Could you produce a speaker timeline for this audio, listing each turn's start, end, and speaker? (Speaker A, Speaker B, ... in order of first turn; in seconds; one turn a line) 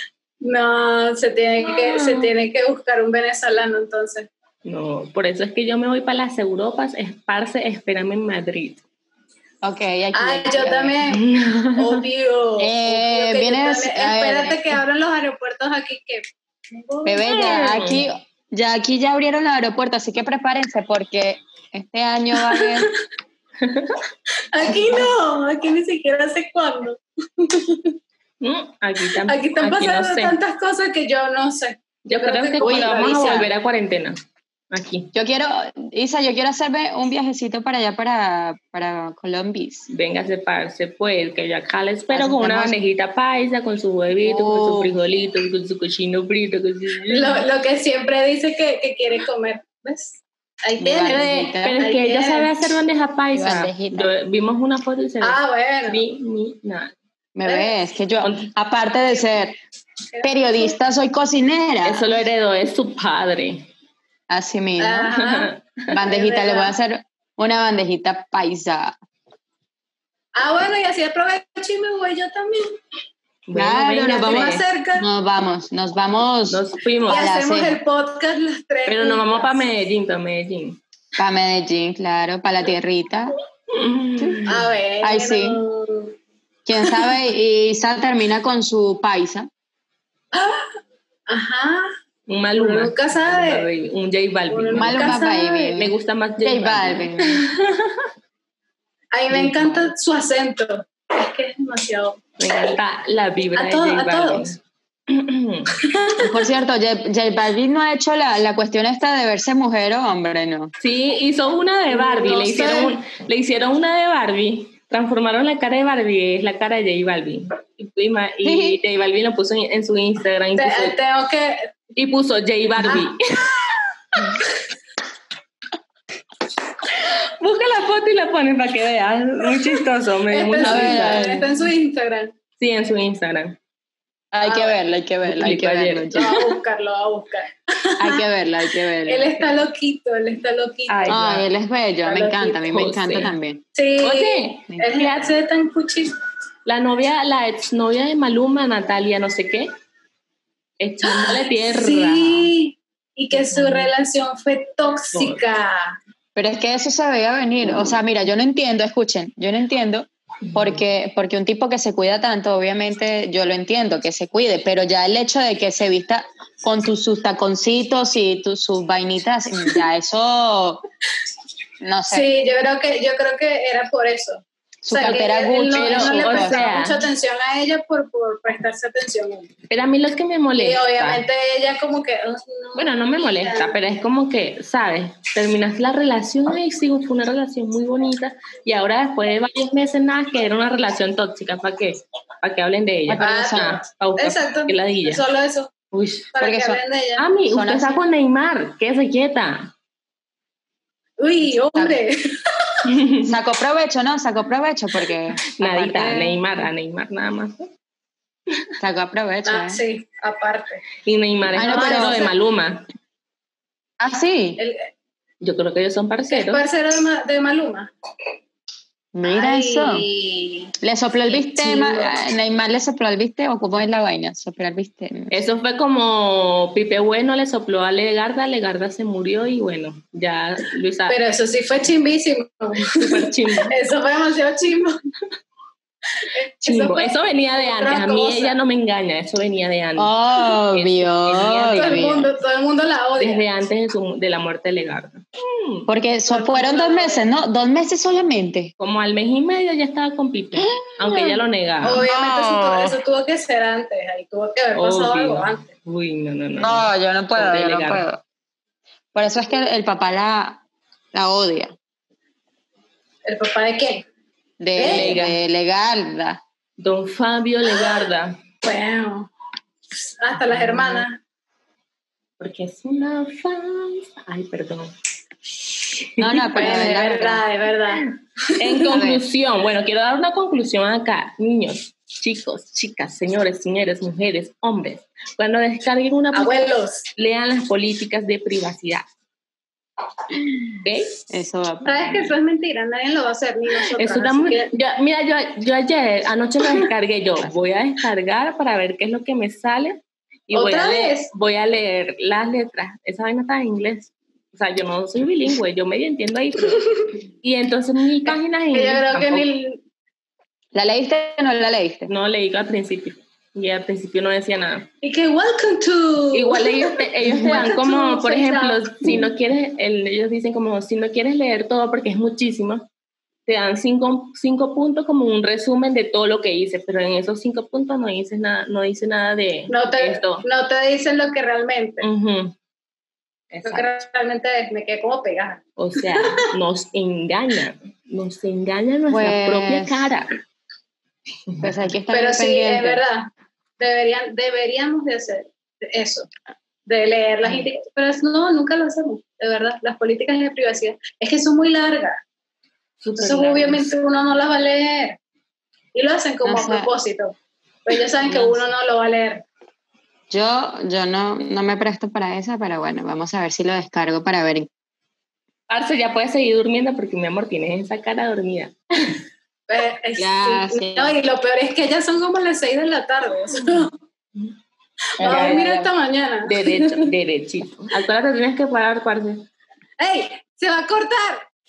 Speaker A: 0.4-4.3
Speaker B: 1.6-2.3
Speaker B: 4.6-8.8
Speaker C: 9.6-10.9
Speaker A: 10.1-17.6
Speaker B: 11.1-12.0
Speaker C: 12.6-14.7
Speaker C: 17.0-22.9
Speaker B: 17.2-18.1
Speaker A: 22.4-22.9
Speaker B: 23.6-23.9
Speaker A: 24.5-27.9
Speaker B: 28.4-30.4
Speaker A: 29.3-33.5
Speaker B: 32.0-34.2
Speaker C: 32.6-33.5
Speaker B: 34.7-35.1
Speaker C: 35.1-39.9
Speaker B: 39.9-47.4
Speaker C: 42.1-42.8
Speaker C: 44.2-44.9
Speaker A: 47.1-52.5
Speaker C: 50.8-51.8
Speaker B: 51.1-56.9
Speaker C: 53.3-54.1
Speaker A: 55.2-56.0
Speaker C: 57.4-59.5
Speaker A: 57.4-57.8
Speaker B: 58.2-58.5
Speaker A: 60.1-60.8
Speaker C: 60.2-62.1
Speaker B: 61.8-63.7
Speaker C: 64.3-65.2
Speaker A: 64.8-65.5
Speaker B: 65.2-65.7
Speaker C: 65.9-69.0
Speaker A: 66.0-66.8
Speaker A: 70.3-72.7
Speaker B: 73.5-74.6
Speaker C: 73.5-77.8
Speaker A: 74.0-75.1
Speaker B: 76.5-77.3
Speaker A: 77.1-79.6
Speaker B: 78.8-80.8
Speaker C: 81.2-83.3
Speaker B: 83.7-84.6
Speaker C: 84.2-85.6
Speaker A: 84.5-86.1
Speaker C: 86.7-89.5
Speaker A: 86.8-87.1
Speaker A: 90.3-90.7
Speaker A: 91.3-91.8
Speaker B: 92.3-97.9
Speaker A: 92.5-93.7
Speaker A: 94.5-95.6
Speaker C: 94.8-97.4
Speaker A: 99.1-102.2
Speaker C: 99.3-99.9
Speaker B: 102.4-104.6
Speaker A: 103.5-104.5
Speaker B: 105.1-105.7
Speaker A: 105.8-106.4
Speaker C: 106.2-110.7
Speaker B: 110.8-121.0
Speaker C: 111.9-113.0
Speaker C: 118.4-118.8
Speaker A: 120.6-121.6
Speaker B: 122.0-124.3
Speaker B: 126.8-131.4
Speaker A: 130.3-132.3
Speaker C: 130.6-131.5
Speaker B: 132.6-133.6
Speaker C: 134.3-136.4
Speaker A: 134.4-134.8
Speaker B: 135.2-136.4
Speaker A: 136.1-138.2
Speaker C: 138.0-139.4
Speaker A: 139.0-141.1
Speaker B: 140.9-141.4
Speaker C: 141.1-143.6
Speaker A: 142.0-142.6
Speaker B: 142.7-143.3
Speaker A: 143.7-146.1
Speaker B: 144.0-145.3
Speaker C: 144.7-145.1
Speaker B: 146.6-149.7
Speaker B: 150.8-152.5
Speaker A: 151.1-156.0
Speaker B: 153.3-153.9
Speaker B: 155.1-155.4
Speaker C: 156.3-170.8
Speaker B: 160.5-160.8
Speaker C: 171.8-172.2
Speaker A: 172.1-179.5
Speaker C: 174.8-176.7
Speaker B: 175.8-177.0
Speaker B: 179.7-181.2
Speaker A: 180.6-183.7
Speaker B: 182.7-195.2
Speaker C: 193.1-193.8
Speaker A: 193.2-195.7
Speaker B: 195.9-196.3
Speaker A: 196.3-197.3
Speaker C: 196.4-196.8
Speaker B: 197.2-199.7
Speaker C: 197.5-198.0
Speaker A: 201.2-202.2
Speaker C: 201.4-202.0
Speaker B: 202.9-203.3
Speaker C: 203.2-206.4
Speaker B: 205.5-207.7
Speaker C: 208.8-209.8
Speaker A: 209.4-210.9
Speaker B: 211.0-212.9
Speaker C: 211.5-212.2
Speaker A: 211.5-212.3
Speaker C: 214.0-214.6
Speaker A: 214.6-214.9
Speaker B: 215.4-216.6
Speaker A: 216.3-217.9
Speaker C: 219.1-220.0
Speaker A: 219.2-220.7
Speaker C: 220.8-225.4
Speaker A: 221.3-222.1
Speaker B: 225.3-231.2
Speaker A: 231.1-232.9
Speaker B: 232.8-233.7
Speaker A: 233.7-234.9
Speaker A: 236.3-238.5
Speaker B: 236.6-240.1
Speaker C: 240.0-242.2
Speaker B: 240.7-242.3
Speaker A: 241.7-243.4
Speaker B: 243.2-245.9
Speaker C: 245.9-248.7
Speaker A: 246.3-247.2
Speaker B: 248.8-252.1
Speaker C: 250.6-251.4
Speaker A: 251.8-255.7
Speaker C: 252.0-253.0
Speaker B: 254.7-258.0
Speaker C: 256.6-258.2
Speaker C: 259.1-260.6
Speaker C: 261.1-261.7
Speaker A: 263.2-264.0
Speaker C: 264.6-266.4
Speaker A: 264.8-265.1
Speaker B: 264.8-265.4
Speaker B: 266.8-268.4
Speaker A: 268.6-269.3
Speaker A: 269.9-271.2
Speaker B: 272.4-274.9
Speaker B: 275.8-276.8
Speaker C: 276.2-277.4
Speaker A: 276.5-278.1
Speaker B: 278.6-289.0
Speaker A: 278.7-279.0
Speaker C: 278.9-279.2
Speaker A: 286.3-287.0
Speaker B: 290.8-291.2
Speaker C: 291.3-292.4
Speaker A: 291.8-294.7
Speaker B: 293.9-306.9
Speaker A: 300.5-301.3
Speaker B: 307.4-309.4
Speaker A: 308.7-309.8
Speaker C: 310.7-312.1
Speaker B: 312.1-314.9
Speaker A: 315.0-319.2
Speaker B: 316.3-322.9
Speaker C: 317.2-317.6
Speaker B: 323.4-330.4
Speaker A: 329.7-332.1
Speaker B: 332.0-332.5
Speaker B: 333.5-333.9
Speaker A: 333.6-335.6
Speaker B: 335.8-340.4
Speaker A: 336.1-336.4
Speaker C: 339.1-340.1
Speaker C: 341.6-343.0
Speaker A: 342.1-343.3
Speaker A: 343.8-346.3
Speaker A: 346.9-352.2
Speaker B: 353.0-353.9
Speaker A: 353.2-355.2
Speaker A: 355.9-359.4
Speaker C: 356.4-356.9
Speaker C: 358.3-358.6
Speaker C: 360.3-364.7
Speaker B: 365.7-369.2
Speaker A: 369.7-373.9
Speaker C: 370.2-371.1
Speaker C: 375.2-375.9
Speaker A: 375.2-377.1
Speaker B: 375.2-375.6
Speaker B: 376.4-379.5
Speaker A: 380.0-381.4